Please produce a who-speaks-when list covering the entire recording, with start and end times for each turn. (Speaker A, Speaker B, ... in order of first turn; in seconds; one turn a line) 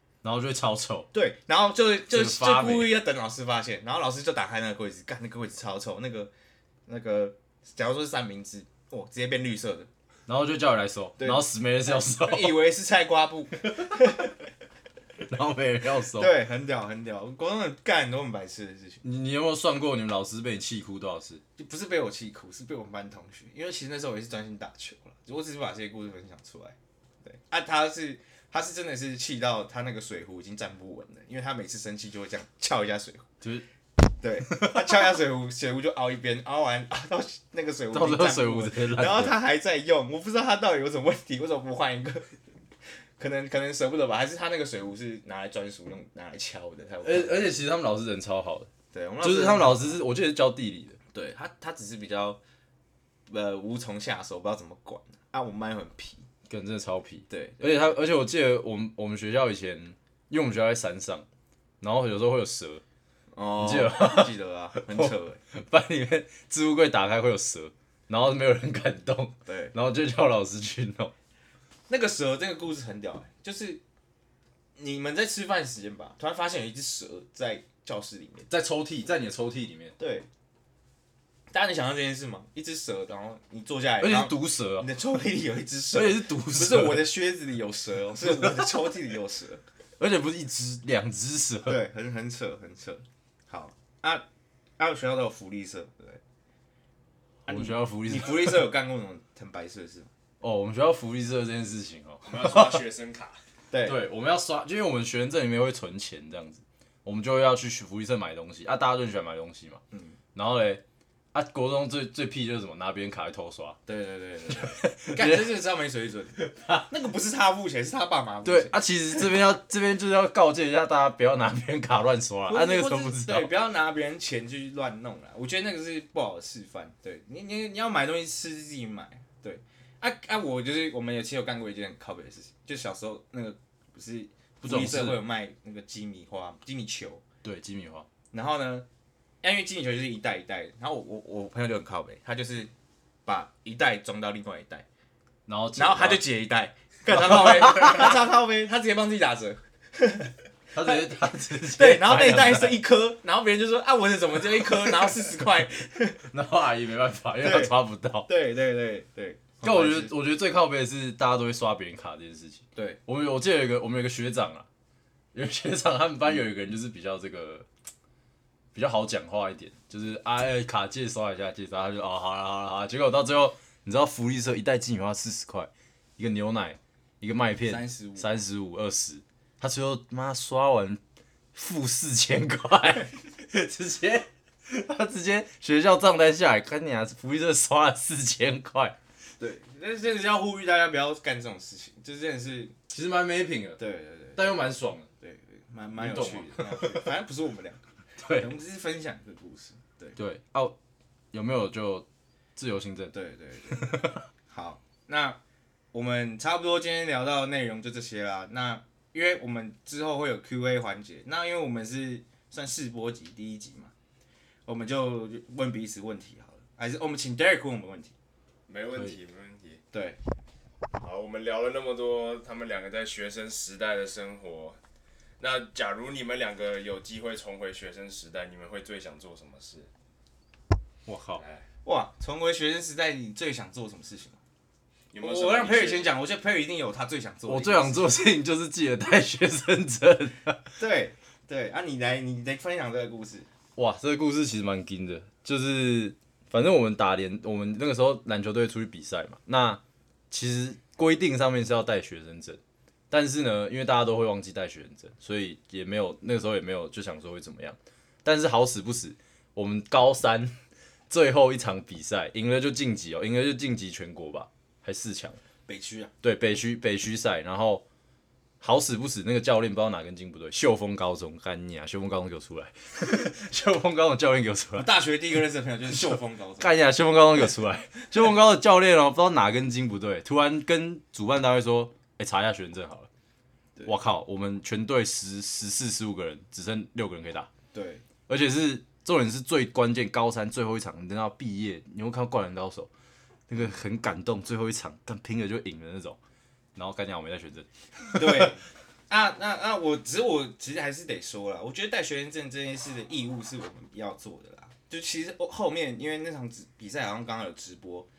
Speaker A: 0.2-1.1
Speaker B: 1.1-6.3
Speaker A: 2.1-2.9
Speaker B: 6.9-9.9
Speaker A: 10.3-12.6
Speaker B: 11.2-14.3
Speaker A: 15.3-16.3
Speaker B: 16.1-19.0
Speaker A: 19.0-21.4
Speaker B: 21.6-33.3
Speaker B: 34.2-42.4
Speaker A: 34.5-35.0
Speaker A: 37.9-39.4
Speaker B: 43.2-47.6
Speaker A: 47.0-48.7
Speaker B: 48.9-50.0
Speaker A: 49.2-51.0
Speaker B: 51.1-52.4
Speaker B: 53.3-56.2
Speaker A: 56.5-61.3
Speaker B: 57.3-58.0
Speaker A: 61.8-62.8
Speaker B: 63.3-65.4
Speaker A: 63.6-71.1
Speaker B: 69.5-69.7
Speaker B: 71.9-73.8
Speaker B: 74.8-78.5
Speaker A: 78.5-80.0
Speaker B: 80.0-80.3
Speaker B: 81.5-89.6
Speaker A: 84.0-84.9
Speaker A: 85.9-87.1
Speaker A: 88.2-88.7
Speaker A: 90.0-91.8
Speaker B: 91.7-94.2
Speaker B: 94.8-96.2
Speaker B: 97.5-100.1
Speaker A: 97.5-98.7
Speaker A: 100.4-102.8
Speaker C: 102.3-103.4
Speaker B: 103.7-104.0
Speaker A: 103.8-109.8
Speaker B: 109.9-110.2
Speaker A: 110.3-113.8
Speaker B: 113.9-119.4
Speaker A: 114.6-115.5
Speaker A: 116.5-116.8
Speaker A: 118.4-123.5
Speaker B: 122.5-137.2
Speaker A: 134.6-135.2
Speaker A: 137.4-138.1
Speaker B: 138.3-138.9
Speaker B: 139.4-142.7
Speaker B: 143.3-144.9
Speaker A: 145.5-146.2
Speaker B: 145.8-151.1
Speaker A: 147.1-148.1
Speaker A: 150.7-152.8
Speaker B: 151.7-156.3
Speaker A: 154.6-155.2
Speaker A: 156.3-158.3
Speaker B: 157.4-160.1
Speaker A: 159.6-164.7
Speaker A: 165.3-167.7
Speaker A: 168.7-181.0
Speaker B: 177.6-178.4
Speaker A: 181.5-189.0
Speaker B: 189.4-192.8
Speaker A: 192.9-193.8
Speaker B: 193.8-194.6
Speaker A: 194.4-195.1
Speaker B: 195.2-200.2
Speaker A: 196.0-197.1
Speaker A: 198.2-198.5
Speaker A: 200.2-200.8
Speaker A: 201.3-203.1
Speaker B: 203.1-203.9
Speaker A: 203.7-204.2
Speaker B: 204.5-205.4
Speaker B: 205.9-213.9
Speaker B: 214.7-218.1
Speaker C: 218.7-219.8
Speaker B: 219.9-220.2
Speaker C: 221.0-224.8
Speaker C: 225.4-229.9
Speaker A: 231.1-231.4
Speaker C: 231.3-231.7
Speaker B: 231.8-234.4
Speaker C: 235.1-236.1
Speaker B: 235.2-238.2
Speaker A: 237.5-240.7
Speaker B: 240.8-243.5
Speaker A: 243.8-260.6
Speaker A: 261.1-265.4
Speaker B: 265.7-266.1
Speaker A: 266.2-267.8
Speaker A: 268.6-274.9
Speaker B: 274.8-276.8
Speaker A: 275.9-283.1
Speaker A: 283.9-287.5
Speaker B: 287.7-288.0
Speaker A: 288.3-292.9
Speaker A: 293.5-296.2
Speaker A: 296.8-298.5
Speaker B: 298.1-308.1